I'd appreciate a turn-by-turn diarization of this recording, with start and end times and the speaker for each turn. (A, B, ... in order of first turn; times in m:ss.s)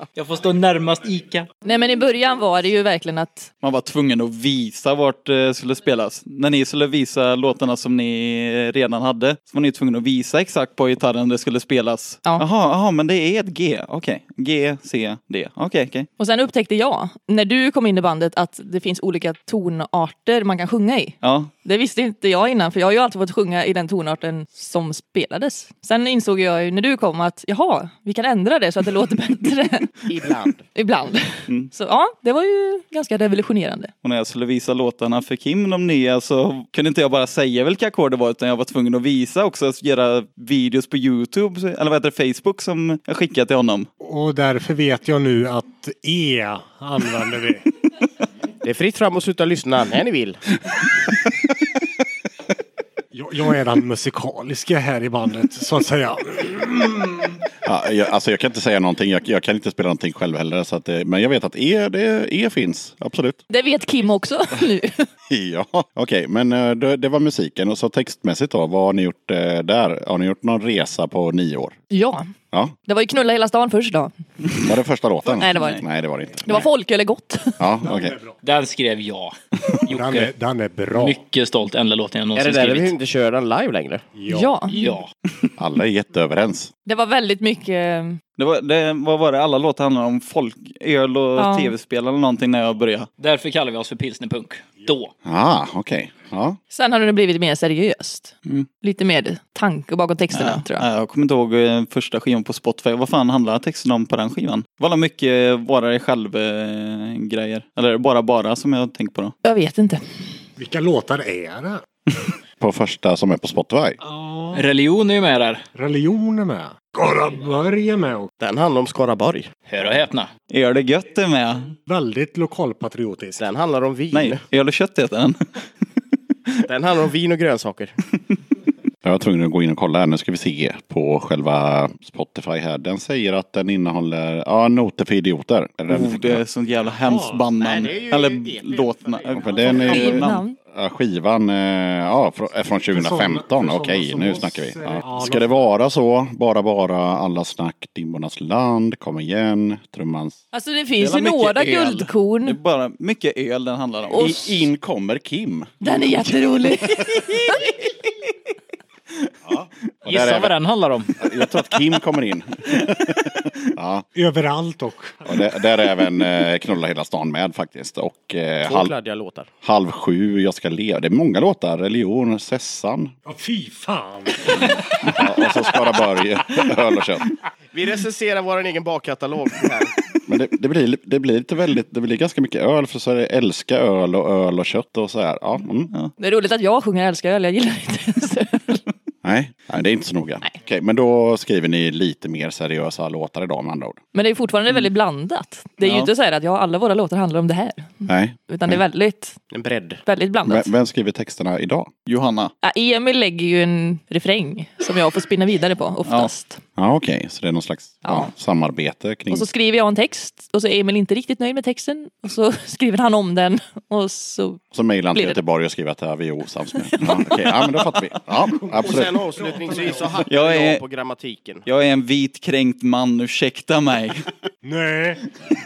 0:00.2-0:01.4 A
0:01.6-0:03.5 B
0:03.6-0:16.1 C
0:16.2-0:29.9 B
0:21.2-0:21.5 C
0:30.1-0:30.6 D
0:30.7-0:33.9 B
0:34.0-0:43.9 C
0:44.0-0:47.6 E
0:48.6-0:50.4 D
0:53.1-0:57.4 E
0:57.6-1:03.4 F
1:03.5-1:05.1 B
1:05.3-1:11.7 F
1:11.9-1:12.3 B
1:12.8-1:14.1 B
1:14.6-1:16.6 F
1:15.4-1:15.8 B
1:15.5-1:15.8 C
1:16.4-1:17.6 B
1:17.6-1:18.2 F
1:17.8-1:18.4 E
1:18.4-1:19.3 A
1:19.9-1:20.3 A
1:19.9-1:21.2 E
1:20.9-1:22.9 A
1:22.3-1:24.0 D
1:24.1-1:24.6 E
1:24.3-1:25.0 B
1:24.7-1:25.1 A
1:25.6-1:26.7 F
1:26.8-1:28.2 B
1:28.4-1:33.1 C
1:31.4-1:31.7 B
1:33.2-1:35.1 A
1:35.2-1:36.6 F
1:36.7-1:40.9 B
1:40.3-1:49.3 C
1:49.4-1:50.0 B
1:50.6-1:51.8 E
1:52.6-1:54.0 F
1:54.0-1:54.6 E
1:54.5-1:55.6 A
1:55.7-1:58.3 E
1:58.4-1:59.5 D
1:59.7-2:00.3 A
2:00.5-2:01.7 C
2:01.9-2:03.4 E
2:03.4-2:04.4 D
2:04.1-2:05.6 C
2:06.7-2:07.9 D
2:09.0-2:16.4 F
2:15.9-2:20.4 C
2:17.0-2:17.4 E
2:17.4-2:19.8 D
2:19.4-2:30.4 F
2:19.6-2:20.6 B
2:22.9-2:25.7 E
2:30.5-2:32.6 B
2:32.4-2:34.2 C
2:34.1-2:34.4 B
2:34.2-2:35.8 F
2:35.8-2:37.7 B
2:39.4-2:40.5 F
2:40.1-2:41.1 A
2:41.2-2:44.0 F
2:44.1-2:45.3 E
2:45.2-2:48.9 F
2:48.6-2:49.5 D
2:49.6-2:53.1 F
2:53.2-2:55.4 E
2:55.0-2:57.3 F
2:57.7-2:59.9 D
3:00.3-3:05.9 F
3:06.2-3:08.8 B
3:09.2-3:14.0 F
3:14.1-3:19.4 B
3:15.8-3:16.1 C
3:18.1-3:18.8 F
3:19.5-3:20.0 D
3:20.0-3:20.7 B
3:20.4-3:21.9 F
3:22.1-3:22.5 C
3:22.6-3:26.6 B
3:26.0-3:26.3 C
3:26.8-3:29.4 F
3:28.0-3:28.3 B
3:29.3-3:34.6 B
3:34.7-3:39.2 F
3:35.1-3:35.4 B
3:38.5-3:40.2 E
3:38.8-3:41.6 D
3:40.3-3:40.8 C
3:41.6-3:44.2 C
3:44.6-3:45.2 E